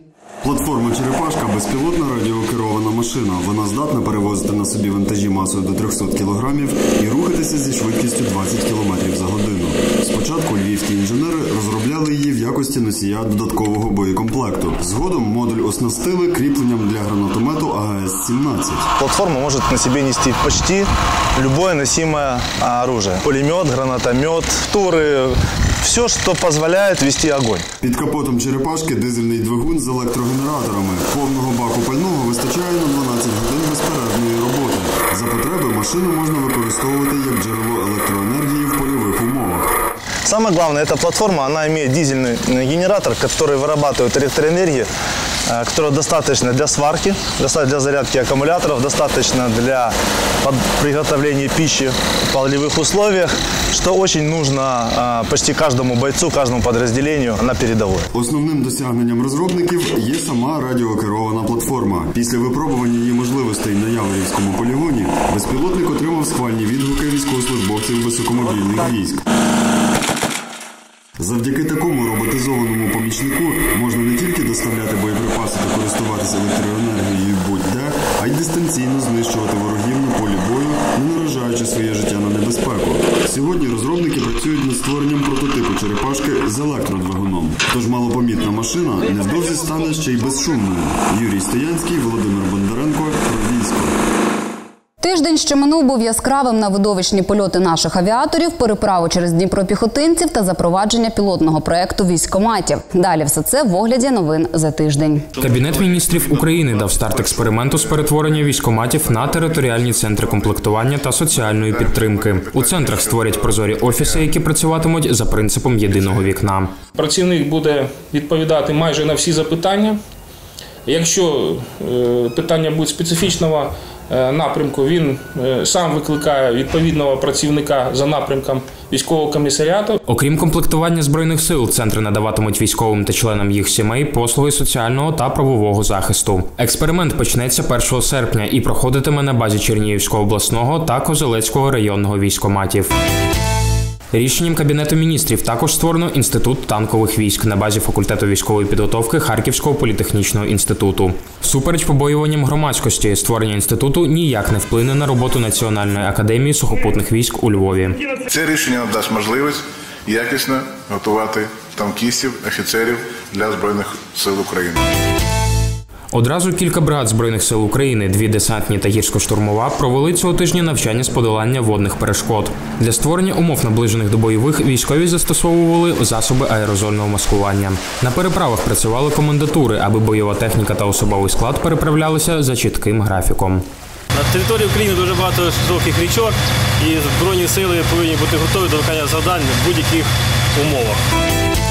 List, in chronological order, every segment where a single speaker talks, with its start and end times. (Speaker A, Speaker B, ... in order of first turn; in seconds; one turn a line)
Speaker A: 0.4-18.9
Speaker B: 19.0-27.7
Speaker A: 27.8-39.8
Speaker B: 40.2-44.9
Speaker B: 45.5-58.1
Speaker A: 58.1-69.2
Speaker A: 71.2-94.0
Speaker C: 95.0-105.4
Speaker D: 105.4-116.8
Speaker E: 109.2-110.5
Speaker E: 111.5-114.1
Speaker F: 117.0-120.0
Speaker F: 120.9-130.0
Speaker D: 130.0-142.9
Speaker D: 144.1-158.0
Speaker E: 158.3-164.8
Speaker D: 166.1-183.6
Speaker G: 184.6-186.3
Speaker G: 186.9-187.8
Speaker G: 188.4-189.1
Speaker G: 190.6-191.0